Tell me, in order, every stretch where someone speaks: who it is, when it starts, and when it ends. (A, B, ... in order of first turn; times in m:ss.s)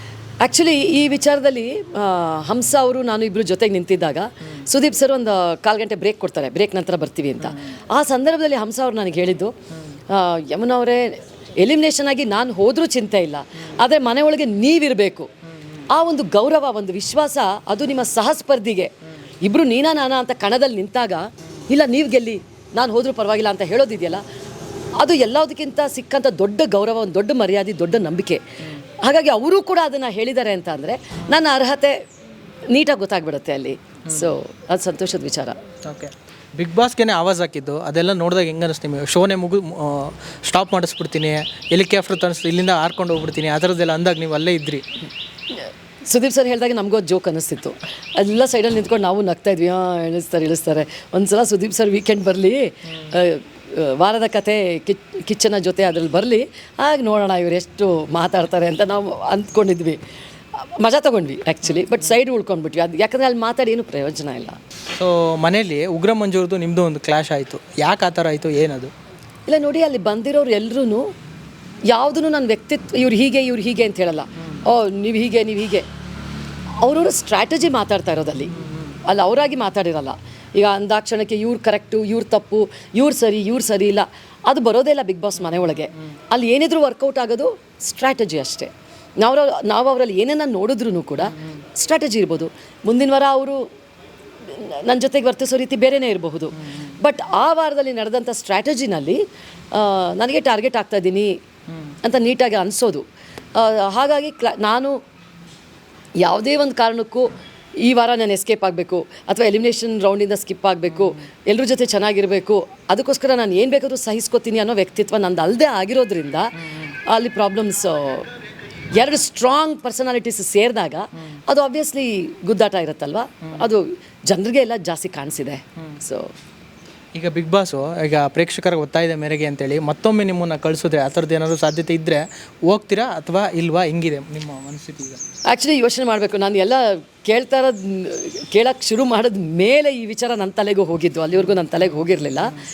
0:00.4-0:09.5 A
0:10.1-0:15.3 A
0:15.9-0:18.9 A
0:19.4-0:24.2 A
0:25.0-0:28.4 A
0:29.0-0:32.0 A
0:32.7-0:35.6 A
0:35.8-0:44.8 B
0:45.5-1:00.0 A
1:00.6-1:04.6 A
1:05.0-1:08.9 B
1:09.5-1:11.1 A
1:11.9-1:15.9 A
1:16.8-1:18.5 A
1:18.6-1:18.9 B
1:19.0-1:33.7 A
1:34.5-1:41.3 A
1:42.0-1:45.0 A
1:46.2-1:47.3 A
1:47.8-1:58.3 A
1:58.9-2:06.3 A
2:07.2-2:15.2 B
2:15.5-2:22.6 A